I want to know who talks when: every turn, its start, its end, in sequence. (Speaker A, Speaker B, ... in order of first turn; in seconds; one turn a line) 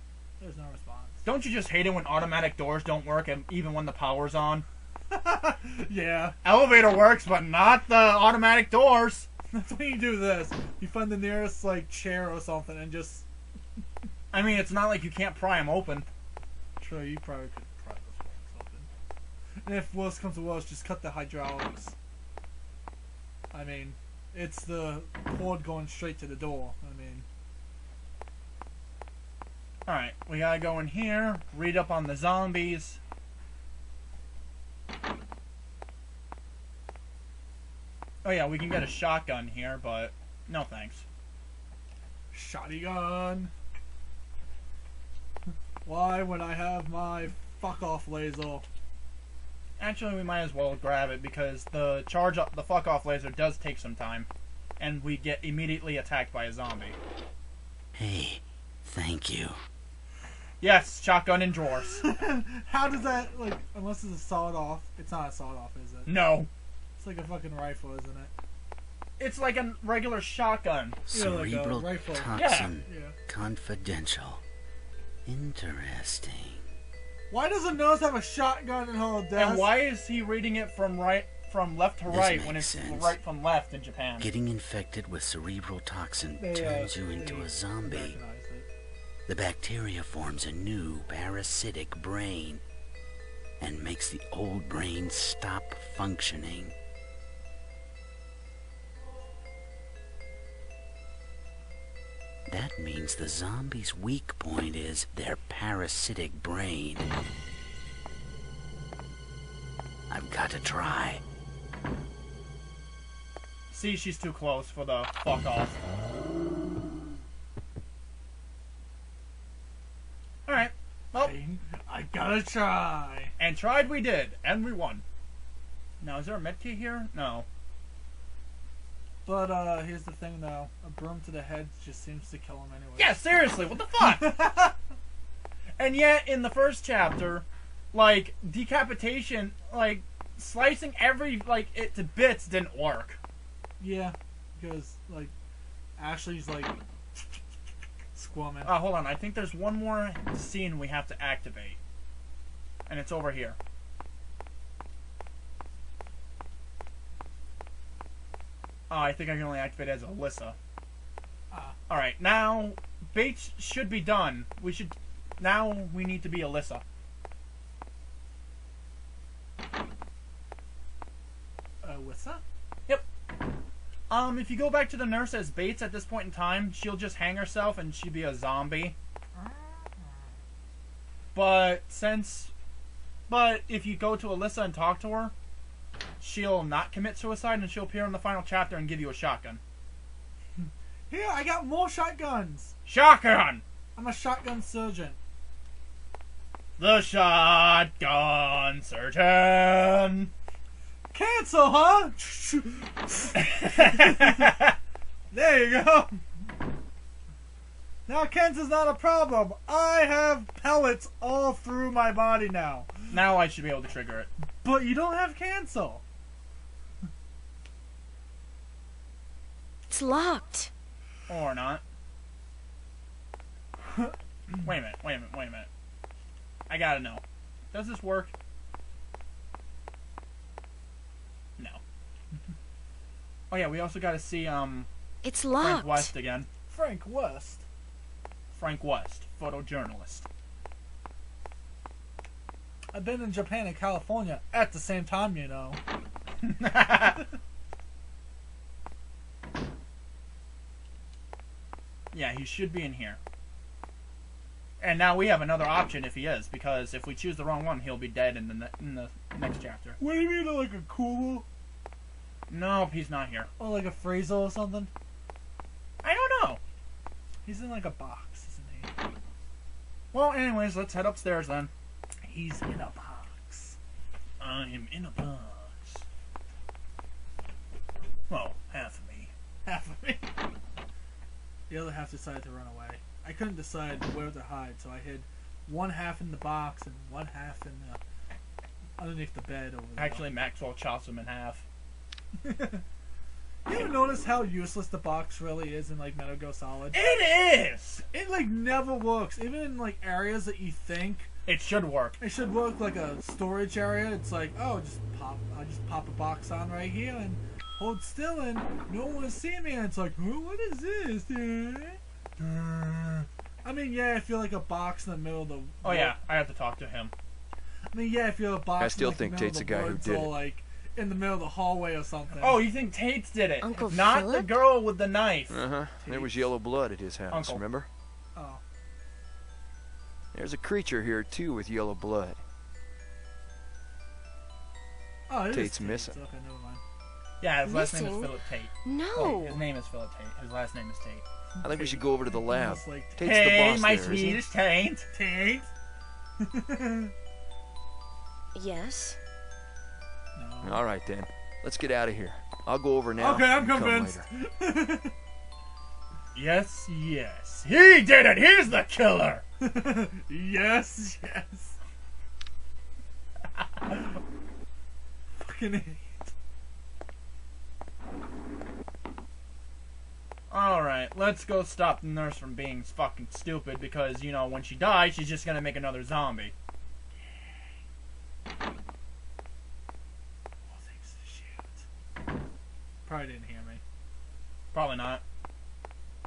Speaker A: 0.4-1.3
Speaker B: 1.2-4.7
Speaker A: 5.1-6.4
Speaker B: 6.4-9.3
Speaker A: 9.5-13.2
Speaker B: 14.3-16.1
Speaker A: 16.8-18.9
Speaker A: 19.6-21.9
Speaker A: 23.5-27.3
Speaker B: 29.9-33.0
Speaker B: 38.2-41.0
Speaker A: 42.3-43.5
Speaker A: 45.8-48.7
Speaker B: 49.8-54.3
Speaker B: 54.8-57.0
Speaker C: 58.0-59.6
Speaker B: 60.6-62.0
Speaker A: 61.9-66.1
Speaker B: 66.1-66.5
Speaker A: 67.0-68.3
Speaker B: 69.2-71.0
Speaker C: 71.1-74.4
Speaker A: 71.1-73.2
Speaker B: 72.3-72.7
Speaker C: 75.3-76.7
Speaker A: 77.3-79.7
Speaker B: 79.4-84.3
Speaker C: 82.1-83.2
Speaker C: 84.2-88.2
Speaker A: 86.4-88.7
Speaker C: 89.3-92.6
Speaker C: 93.6-96.7
Speaker C: 102.5-107.0
Speaker C: 110.1-111.2
Speaker B: 113.7-115.8
Speaker B: 120.5-121.3
Speaker A: 121.1-123.3
Speaker B: 123.4-125.0
Speaker B: 126.0-127.5
Speaker A: 129.2-134.8
Speaker B: 133.0-134.4
Speaker B: 135.8-143.2
Speaker A: 143.8-145.3
Speaker A: 146.0-147.4
Speaker A: 148.2-148.7
Speaker B: 148.6-151.8
Speaker B: 152.9-153.6
Speaker B: 158.9-160.6
Speaker A: 161.5-161.8
Speaker B: 161.9-166.8
Speaker A: 171.8-172.4
Speaker B: 174.1-179.0
Speaker A: 179.4-179.9
Speaker B: 181.3-182.5
Speaker B: 183.3-185.3
Speaker B: 186.2-189.6
Speaker A: 190.6-192.7
Speaker B: 192.9-193.6
Speaker A: 194.0-195.2
Speaker B: 196.8-200.3
Speaker A: 201.1-204.5
Speaker B: 203.4-204.8
Speaker A: 205.3-206.2
Speaker A: 208.1-213.0
Speaker B: 213.1-214.3
Speaker A: 214.6-216.0
Speaker D: 219.9-220.7
Speaker B: 221.3-221.8
Speaker B: 224.6-225.7
Speaker B: 226.7-228.3
Speaker B: 233.5-234.9
Speaker D: 235.2-236.1
Speaker B: 235.6-236.5
Speaker A: 236.7-237.7
Speaker B: 238.5-240.3
Speaker A: 242.9-245.8
Speaker B: 246.4-247.2
Speaker B: 252.1-253.2
Speaker B: 254.8-260.0
Speaker A: 260.0-261.5
Speaker B: 262.5-263.5
Speaker A: 263.6-264.9
Speaker B: 266.0-266.6
Speaker A: 267.5-268.9
Speaker B: 270.1-271.7
Speaker A: 272.2-273.8
Speaker B: 274.4-276.1
Speaker B: 278.3-279.3
Speaker A: 279.6-280.3
Speaker A: 281.7-288.0
Speaker A: 289.0-290.3
Speaker B: 290.0-291.6
Speaker A: 292.4-292.8
Speaker A: 293.7-297.1
Speaker B: 296.9-298.0
Speaker A: 298.1-301.3
Speaker B: 301.5-302.2
Speaker A: 302.2-312.0
Speaker B: 312.4-313.3
Speaker A: 313.6-316.2
Speaker B: 315.8-317.1
Speaker A: 317.9-322.7
Speaker E: 318.8-320.4
Speaker B: 322.4-325.6
Speaker D: 323.6-324.6
Speaker E: 325.5-327.9
Speaker A: 326.0-326.6
Speaker B: 327.3-327.6
Speaker A: 328.4-328.6
Speaker E: 330.3-332.4
Speaker A: 335.3-336.8
Speaker E: 335.5-336.2
Speaker B: 337.4-341.2
Speaker D: 337.6-339.6
Speaker A: 341.6-343.4
Speaker E: 341.6-344.4
Speaker B: 343.2-345.1
Speaker A: 345.1-345.7
Speaker A: 346.4-347.1
Speaker D: 348.6-349.2
Speaker A: 350.4-350.8
Speaker E: 350.6-354.2
Speaker A: 353.2-355.1
Speaker B: 356.4-359.4
Speaker A: 359.6-361.8
Speaker A: 365.4-366.3
Speaker B: 370.5-376.5
Speaker A: 377.2-377.7
Speaker A: 380.7-381.9
Speaker A: 383.1-383.8
Speaker B: 384.7-385.2